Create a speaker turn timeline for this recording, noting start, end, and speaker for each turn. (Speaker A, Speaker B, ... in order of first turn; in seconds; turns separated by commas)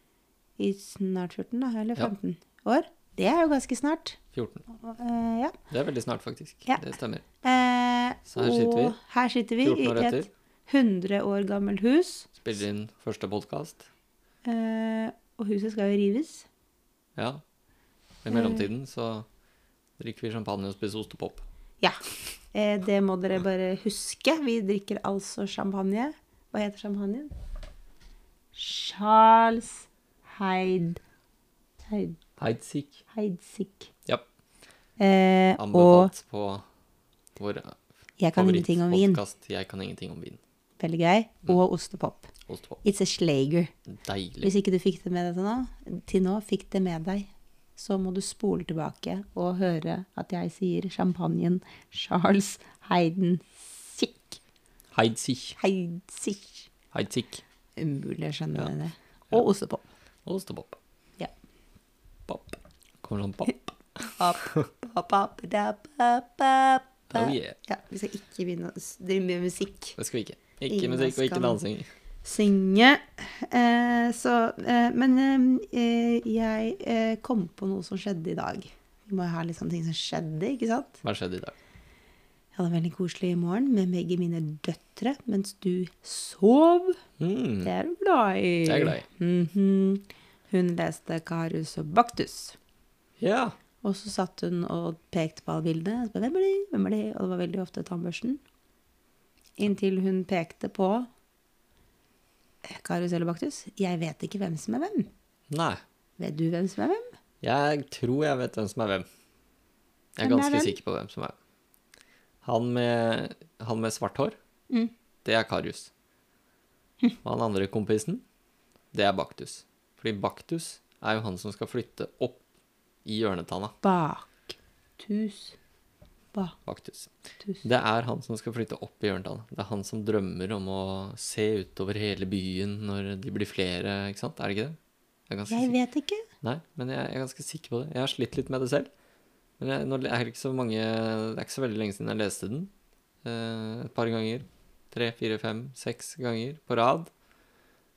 Speaker A: 0.6-4.2, Speaker B: 4.3-4.6, Speaker A: 4.7-5.6, Speaker B: 5.7-7.2, Speaker A: 7.4-12.3, Speaker B: 8.3-9.0, Speaker B: 9.6-10.3, Speaker B: 12.4-13.9, Speaker A: 14.4-16.5, Speaker B: 17.2-17.4, Speaker B: 18.2-19.3, Speaker A: 18.3-18.7, Speaker B: 20.0-21.4, Speaker A: 22.5-27.3, Speaker A: 28.5-31.0, Speaker A: 31.9-32.2, Speaker B: 32.4-33.0, Speaker A: 33.1-33.9, Speaker A: 35.0-36.1, Speaker B: 35.6-36.6, Speaker B: 37.4-37.8, Speaker A: 38.2-39.2, Speaker B: 38.4-40.4, Speaker A: 40.8-42.3, Speaker B: 42.5-42.8, Speaker A: 42.8-43.7, Speaker B: 43.9-44.5, Speaker A: 44.4-54.4, Speaker B: 54.9-55.6, Speaker A: 55.6-56.7, Speaker B: 56.9-57.4, Speaker A: 57.8-59.9, Speaker B: 60.3-60.8, Speaker B: 62.3-64.7, Speaker A: 64.0-70.0, Speaker B: 67.1-67.6, Speaker B: 70.0-71.9, Speaker A: 70.7-71.6, Speaker A: 72.2-81.0, Speaker B: 81.0-81.5, Speaker A: 82.5-87.0, Speaker B: 87.2-87.7, Speaker A: 87.6-92.6, Speaker B: 88.7-89.1, Speaker B: 93.2-93.6, Speaker A: 93.8-98.4, Speaker A: 99.6-101.1, Speaker A: 102.6-105.1, Speaker B: 105.5-105.8, Speaker A: 106.2-107.1, Speaker B: 107.4-109.1, Speaker B: 110.2-111.3, Speaker A: 110.2-110.8, Speaker B: 112.4-114.4, Speaker B: 115.2-115.9, Speaker B: 117.2-118.2, Speaker B: 118.9-122.4, Speaker B: 123.0-123.8, Speaker A: 123.8-125.6, Speaker B: 126.7-134.8, Speaker B: 135.3-135.7, Speaker A: 135.5-136.2, Speaker B: 136.4-138.9, Speaker B: 139.6-142.7, Speaker B: 143.2-147.1